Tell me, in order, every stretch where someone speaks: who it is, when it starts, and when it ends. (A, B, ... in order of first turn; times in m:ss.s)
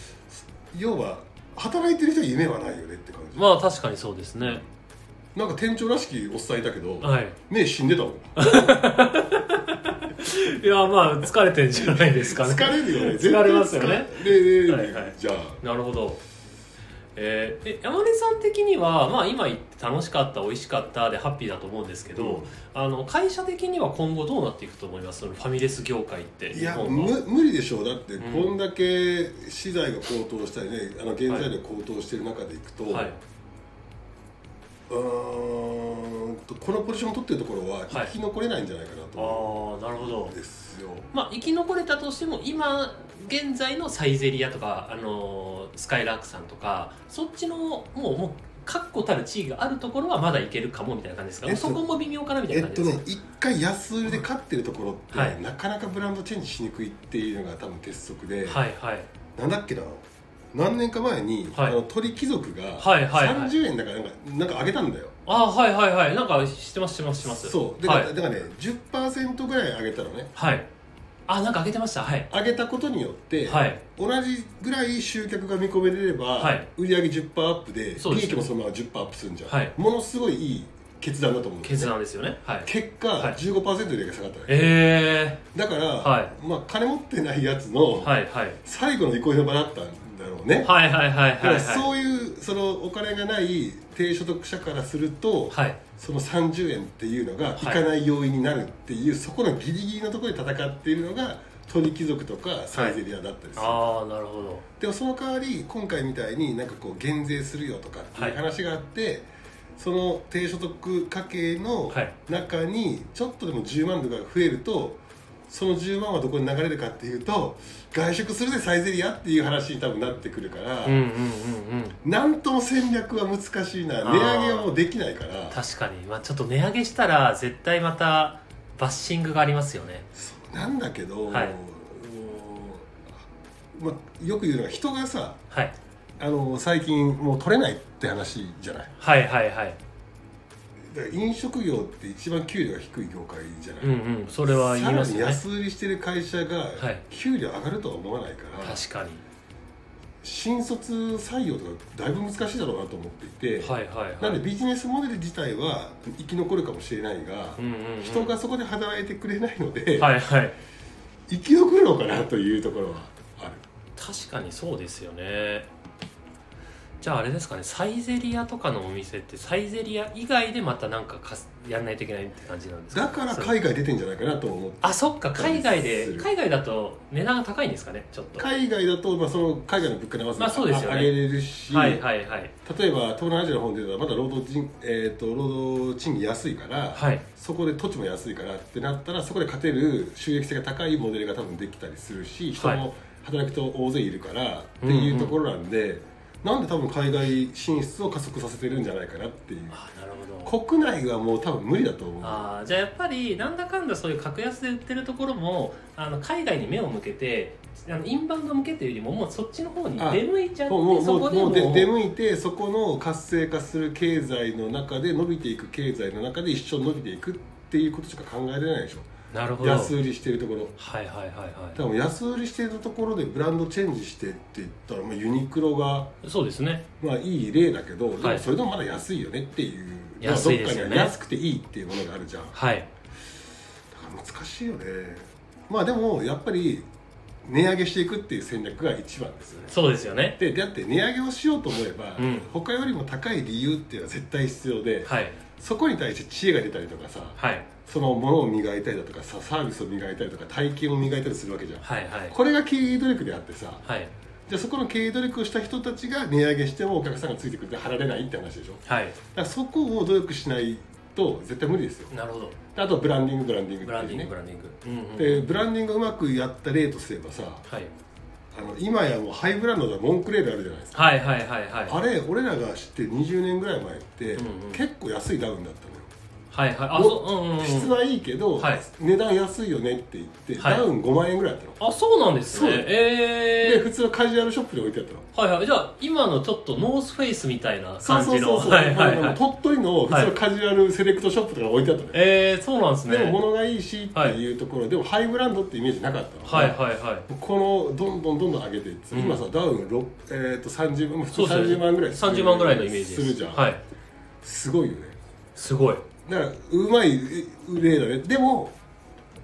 0:00.7-0:03.5 A
0:03.4-0:04.6 B
0:05.4-0:08.7 A
0:07.0-0:07.4 B
0:08.4-0:16.2 B
0:11.9-0:15.6 A
0:17.2-0:27.2 B
0:22.2-0:22.5 A
0:26.5-0:33.1 A
0:28.2-0:28.5 B
0:32.9-0:33.2 B
0:34.9-0:41.1 A
0:39.2-0:40.4 B
0:41.1-0:53.0 B
0:51.4-0:51.9 A
0:52.5-0:58.6 A
0:55.1-0:55.4 B
0:58.5-0:59.1 B
0:59.4-1:05.1 A
1:02.8-1:03.5 B
1:05.3-1:08.1 B
1:07.2-1:10.3 A
1:10.4-1:10.7 B
1:11.3-1:12.3 B
1:12.3-1:21.9 A
1:13.5-1:13.8 B
1:16.4-1:16.7 B
1:18.0-1:18.5 B
1:19.5-1:19.8 B
1:21.6-1:23.4 B
1:22.6-1:24.7 A
1:24.5-1:25.4 B
1:25.5-1:28.1 A
1:26.0-1:26.3 B
1:28.0-1:28.6 B
1:28.6-1:30.7 A
1:30.6-1:31.9 B
1:31.4-1:43.8 A
1:35.5-1:35.8 B
1:37.6-1:37.8 B
1:43.6-1:44.6 B
1:44.8-2:01.0 A
2:00.8-2:02.0 B
2:02.0-2:05.6 A
2:04.0-2:04.8 B
2:05.5-2:10.1 B
2:10.2-2:13.0 A
2:11.3-2:11.6 B
2:13.8-2:15.4 A
2:16.2-2:18.9 A
2:19.0-2:19.8 B
2:20.9-2:28.8 A
2:23.8-2:25.4 B
2:26.8-2:27.0 B
2:28.6-2:29.2 B
2:30.2-2:40.1 A
2:33.6-2:34.4 B
2:37.6-2:38.4 B
2:40.0-2:40.6 B
2:41.3-2:43.6 A
2:44.0-2:45.7 B
2:47.0-2:53.6 B
2:52.9-2:56.3 A
2:54.8-2:58.5 B
2:58.4-3:02.0 A
3:00.4-3:01.2 B
3:01.7-3:02.5 B
3:02.6-3:19.8 A
3:07.0-3:07.2 B
3:12.6-3:12.8 B
3:14.8-3:15.4 B
3:19.7-3:20.5 B
3:20.5-3:22.5 A
3:22.2-3:31.9 B
3:30.0-3:39.1 A
3:39.3-3:39.9 B
3:39.6-3:40.8 A
3:40.8-3:41.8 B
3:41.8-3:46.1 A
3:46.2-3:46.8 B
3:47.0-3:52.5 A
3:48.2-3:48.5 B
3:50.2-3:51.1 B
3:52.5-3:52.9 B
3:53.9-3:56.9 A
3:57.4-3:59.7 A
3:59.7-4:00.4 B
4:00.4-4:13.8 A
4:02.2-4:02.5 B
4:05.1-4:05.4 B
4:07.4-4:07.7 B
4:11.8-4:12.4 B
4:13.8-4:14.1 B
4:14.5-4:18.8 A
4:18.9-4:19.2 B
4:19.3-4:22.1 A
4:22.1-4:22.6 B
4:22.7-4:24.3 A
4:23.8-4:25.5 B
4:25.2-4:27.6 A
4:27.7-4:27.9 B
4:28.5-4:31.1 A
4:30.9-4:32.0 B
4:31.9-4:36.1 A
4:34.4-4:34.8 B
4:36.5-4:38.0 B
4:36.9-4:41.8 A
4:38.6-4:38.8 B
4:40.6-4:40.8 B
4:41.8-4:43.9 B
4:42.5-4:42.9 A
4:43.6-4:45.2 A
4:45.3-4:49.4 B
4:48.0-4:52.2 A
4:52.1-4:53.4 B
4:53.1-5:03.7 A
4:56.5-4:57.3 B
4:59.1-4:59.4 B
5:01.3-5:03.8 B
5:04.4-5:05.2 A
5:05.6-5:06.0 B
5:06.3-5:08.8 A